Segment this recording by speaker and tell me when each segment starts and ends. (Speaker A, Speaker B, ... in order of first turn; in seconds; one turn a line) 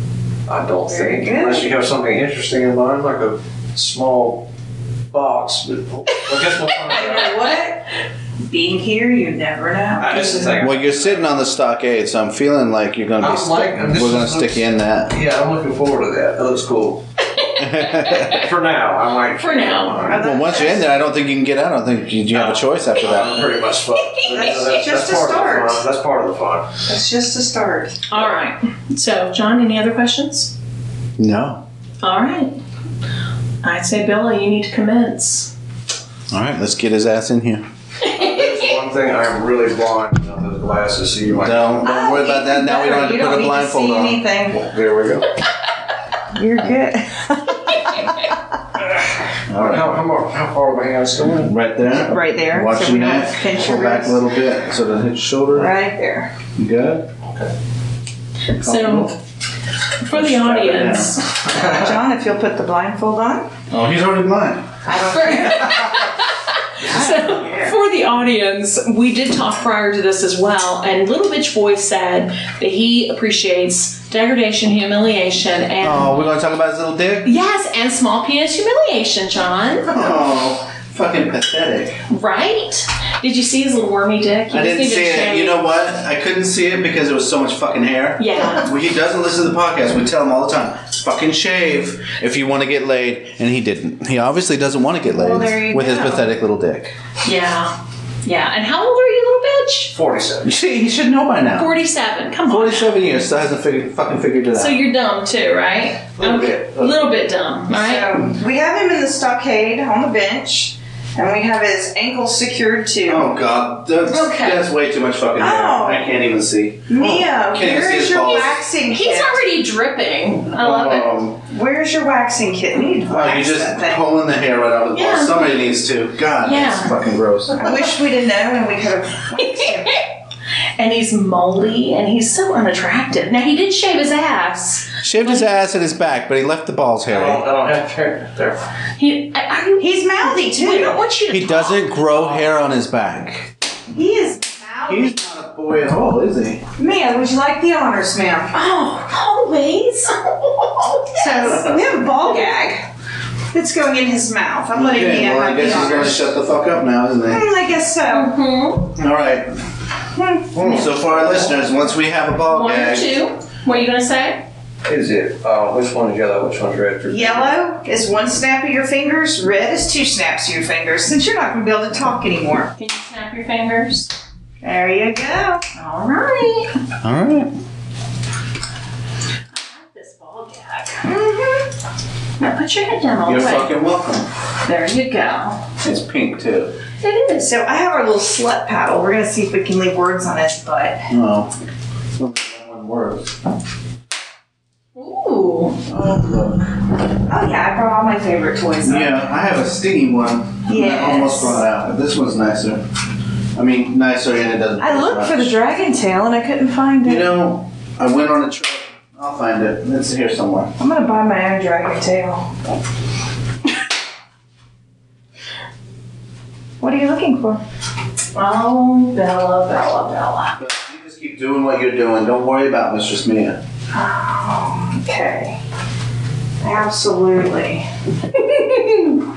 Speaker A: 0.5-4.5
Speaker B: 0.8-1.7
Speaker A: 5.1-7.4
Speaker B: 6.9-7.9
Speaker B: 8.4-10.7
Speaker A: 10.0-11.3
Speaker C: 10.6-15.2
Speaker A: 13.2-17.0
Speaker D: 17.3-18.4
Speaker C: 17.6-18.4
Speaker A: 18.3-20.2
Speaker D: 19.4-20.1
Speaker B: 20.0-20.9
Speaker C: 20.1-23.5
Speaker A: 22.3-26.7
Speaker B: 24.2-25.8
Speaker B: 26.9-28.0
Speaker D: 28.1-30.5
Speaker C: 31.2-31.6
Speaker D: 32.0-32.5
Speaker D: 33.6-35.5
Speaker C: 36.3-37.6
Speaker A: 38.0-41.9
Speaker C: 41.3-44.2
Speaker B: 41.8-44.7
Speaker A: 44.5-45.3
Speaker B: 46.3-48.1
Speaker C: 49.5-50.0
Speaker A: 49.6-51.5
Speaker C: 51.4-55.7
Speaker B: 51.9-54.2
Speaker B: 55.5-56.3
Speaker C: 56.6-57.1
Speaker D: 58.5-59.1
Speaker C: 58.6-59.1
Speaker D: 60.0-61.3
Speaker C: 60.0-61.2
Speaker B: 61.5-63.5
Speaker C: 63.7-64.7
Speaker B: 64.9-65.8
Speaker D: 65.0-76.2
Speaker B: 66.8-67.8
Speaker C: 75.8-77.3
Speaker D: 77.2-79.9
Speaker C: 79.9-82.0
Speaker D: 82.1-85.6
Speaker C: 84.5-96.9
Speaker D: 88.2-88.7
Speaker B: 95.1-96.3
Speaker D: 97.2-99.9
Speaker A: 99.9-100.5
Speaker C: 100.4-101.7
Speaker D: 101.5-103.0
Speaker C: 102.5-104.8
Speaker D: 104.5-108.1
Speaker C: 106.2-106.9
Speaker B: 107.7-113.3
Speaker C: 113.0-118.6
Speaker D: 114.1-114.6
Speaker B: 115.4-116.1
Speaker B: 116.9-119.4
Speaker D: 118.3-121.1
Speaker C: 120.5-121.4
Speaker B: 121.4-124.0
Speaker C: 123.1-127.9
Speaker D: 124.9-125.5
Speaker D: 126.4-127.0
Speaker B: 127.5-130.0
Speaker D: 129.5-129.9
Speaker D: 130.8-135.5
Speaker C: 135.0-137.4
Speaker A: 137.1-138.6
Speaker D: 139.0-141.9
Speaker B: 139.8-141.0
Speaker C: 141.3-143.5
Speaker B: 143.9-145.1
Speaker C: 144.9-146.6
Speaker B: 146.8-148.5
Speaker D: 148.5-151.7
Speaker B: 151.2-152.8
Speaker C: 151.4-151.7
Speaker B: 153.5-156.3
Speaker C: 154.7-157.4
Speaker B: 157.3-158.3
Speaker D: 158.1-158.9
Speaker C: 158.9-159.5
Speaker B: 160.1-160.7
Speaker A: 160.5-161.5
Speaker C: 160.6-163.3
Speaker D: 162.5-164.4
Speaker A: 164.8-167.6
Speaker B: 167.1-172.7
Speaker D: 172.8-174.1
Speaker B: 174.6-175.6
Speaker D: 175.8-176.7
Speaker C: 177.0-177.5
Speaker D: 179.5-181.1
Speaker B: 181.0-181.7
Speaker D: 182.4-183.7
Speaker C: 183.2-184.3
Speaker D: 184.6-185.6
Speaker C: 185.8-186.8
Speaker D: 187.0-187.4
Speaker B: 187.4-191.0
Speaker C: 191.1-191.5
Speaker C: 192.2-193.3
Speaker D: 194.9-195.8
Speaker C: 195.9-196.8
Speaker B: 197.3-199.2
Speaker C: 198.8-202.8
Speaker B: 200.7-201.6
Speaker C: 203.5-205.5
Speaker B: 204.8-207.3
Speaker C: 207.0-210.7
Speaker B: 210.8-212.5
Speaker B: 216.8-217.6
Speaker D: 218.3-220.6
Speaker C: 220.6-223.6
Speaker B: 223.9-225.6
Speaker B: 226.6-227.9